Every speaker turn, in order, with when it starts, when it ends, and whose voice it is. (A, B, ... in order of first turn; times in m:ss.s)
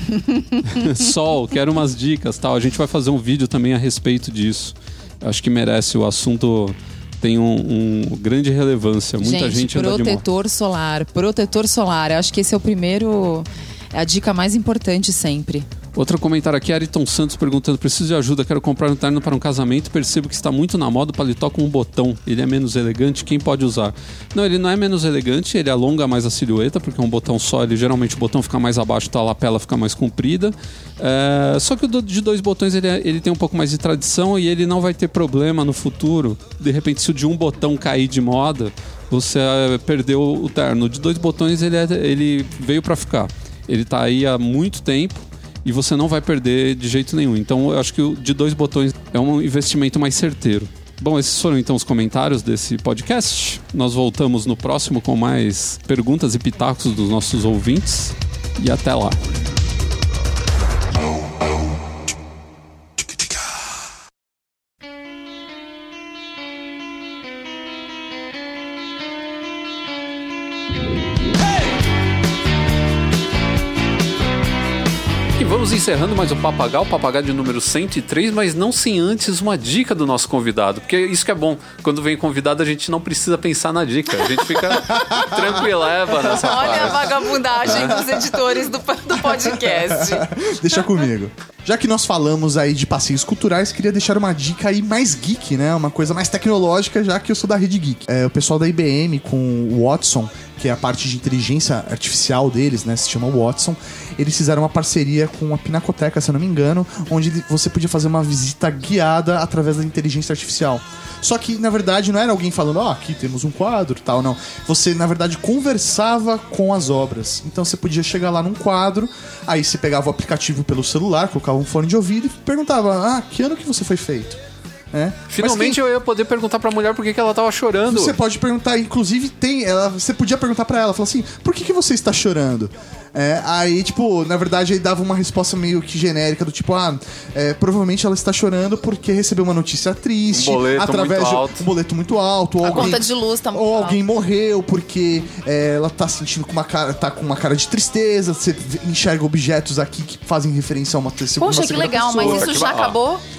0:00.1-0:00.8 A
0:00.6-0:10.2 B
0:09.2-0:15.7 A
0:15.9-0:59.2 B
1:15.4-1:27.9 B
1:24.8-1:25.6 C
1:26.2-1:30.3 A
1:27.7-1:28.2 C
1:29.1-2:04.4 C
2:04.9-2:05.8 C
2:05.3-2:08.2 B
2:07.8-2:32.6 C
2:20.3-2:21.6 B
2:22.6-2:24.0 A
2:31.4-2:33.2 A
2:32.1-2:33.0 B